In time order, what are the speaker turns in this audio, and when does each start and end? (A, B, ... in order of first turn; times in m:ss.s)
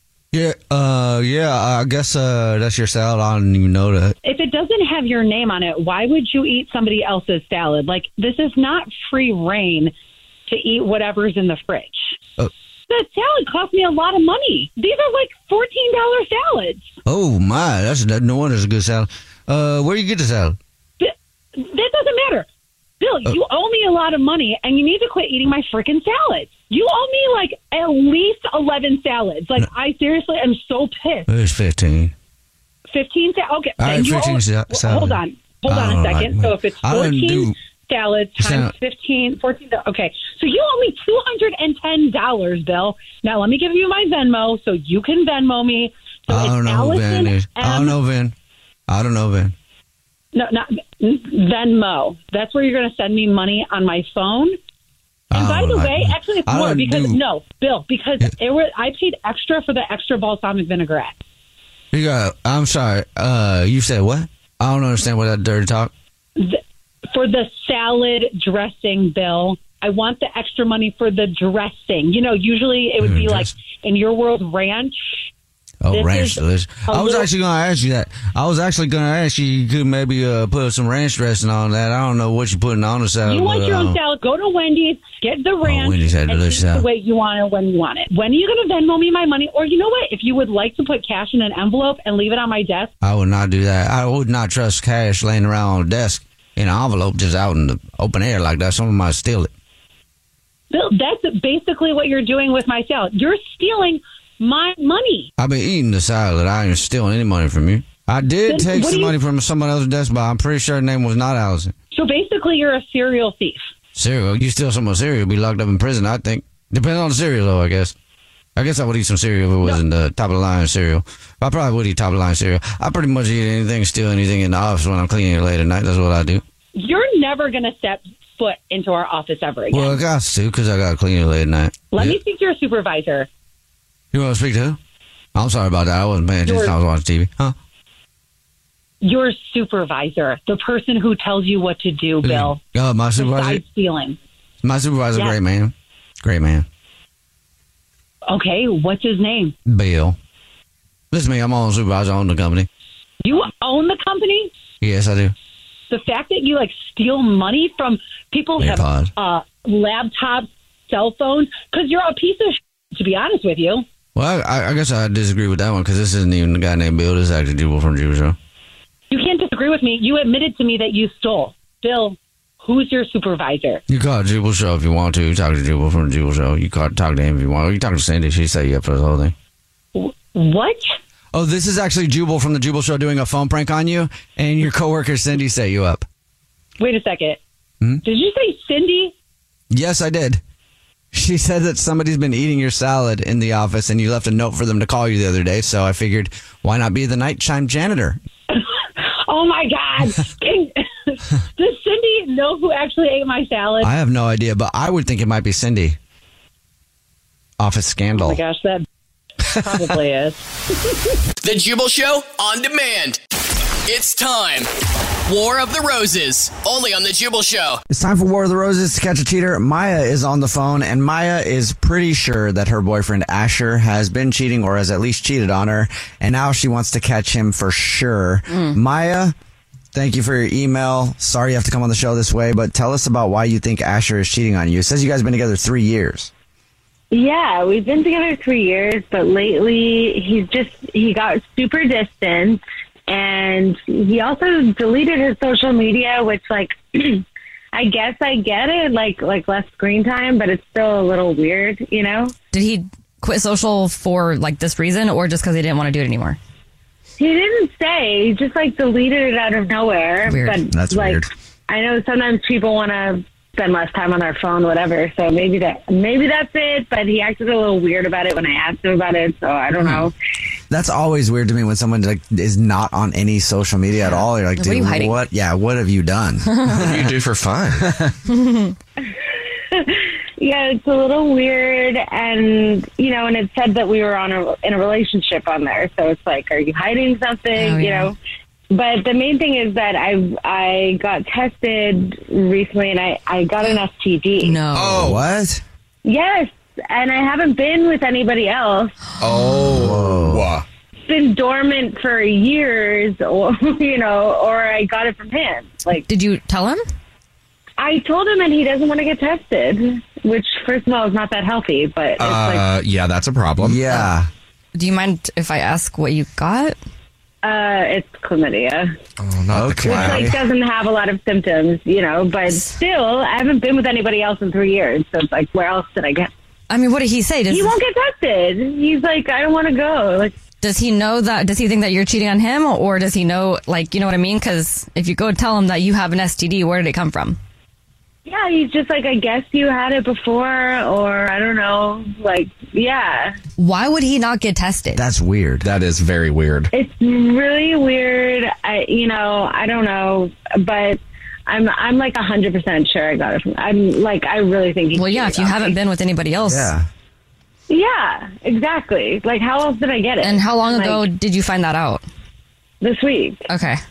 0:00.3-0:04.2 A
0:04.2-0:09.9 B
0:10.5-0:12.2 B
0:12.9-0:16.9 B
0:17.0-0:20.6 A
0:21.0-0:22.4 B
0:23.0-0:31.3 B
0:31.3-0:32.1 A
0:32.9-0:48.0 B
0:33.8-0:37.5 A
0:38.4-0:38.7 A
0:46.3-0:48.3 A
0:48.9-0:49.5 A
0:50.3-0:54.6 B
0:55.3-0:57.2 A
0:55.3-1:01.2 B
1:01.9-1:05.9 A
1:07.1-1:14.9 B
1:13.0-1:13.5 A
1:15.8-1:24.0 A
1:15.9-1:17.3 B
1:23.2-1:32.9 B
1:25.6-1:26.9 A
1:33.0-1:39.5 A
1:40.7-1:45.3 B
1:45.4-1:51.7 A
1:48.5-1:49.2 B
1:51.9-1:53.7 B
1:53.9-1:57.9 A
1:58.6-2:06.4 A
2:06.8-2:10.0 B
2:09.7-2:12.2 A
2:11.9-2:13.3 B
2:14.1-2:14.8 A
2:15.3-2:17.5 A
2:16.4-2:16.7 B
2:19.0-2:22.6 B
2:22.2-2:23.6 A
2:23.2-2:24.2 B
2:24.6-2:26.6 A
2:28.3-2:29.5 B
2:29.6-2:30.2 A
2:31.1-2:32.7 A
2:33.2-2:34.5 B
2:34.8-2:35.3 A
2:35.9-2:43.8 B
2:38.6-2:39.1 A
2:44.1-2:48.4 A
2:49.1-2:53.8 B
2:53.9-2:59.3 A
2:59.9-3:00.9 B
3:01.3-3:06.0 A
3:06.8-3:07.4 B
3:08.0-3:09.1 B
3:09.7-3:10.4 A
3:11.1-3:18.2 A
3:18.5-3:23.9 B
3:23.8-3:26.0 A
3:27.6-3:28.4 A
3:28.1-3:28.8 B
3:29.5-3:30.5 B
3:31.4-3:33.2 C
3:33.9-3:34.7 C
3:35.3-3:37.8 C
3:37.9-3:49.3 A
3:48.5-3:48.8 D
3:49.9-3:56.3 A
3:57.1-4:12.3 E
4:12.5-4:16.4 D
4:17.2-4:30.1 E
4:20.3-4:20.6 D
4:20.7-4:21.3 A
4:30.7-4:37.2 A
4:34.6-4:35.2 D
4:36.7-4:37.9 F
4:37.8-4:38.1 A
4:38.3-4:38.7 D
4:39.7-4:48.2 E
4:47.5-4:48.1 D
4:48.7-4:54.6 E
4:54.4-4:55.1 D
4:54.7-4:55.2 F
4:54.9-4:55.6 A
4:56.0-4:58.9 E
4:59.2-5:00.6 F
4:59.3-4:59.7 D
4:59.6-5:00.5 A
5:01.1-5:06.0 E
5:06.1-5:06.8 D
5:07.8-5:12.7 E
5:12.2-5:14.0 F
5:13.6-5:14.3 A
5:14.7-5:16.8 D
5:17.4-5:18.9 E
5:19.2-5:20.3 F
5:19.5-5:20.4 A
5:19.8-5:26.3 E
5:26.7-5:27.8 D
5:27.5-5:30.4 E
5:30.6-5:37.4 D
5:38.2-5:43.4 E
5:43.6-5:45.0 D
5:44.9-5:45.7 A
5:45.6-5:46.7 F
5:46.7-5:55.8 E
5:54.9-5:56.7 D
5:56.4-5:56.9 A
5:57.7-6:01.0 E
6:00.2-6:02.0 D
6:02.8-6:03.4 E
6:03.5-6:03.8 D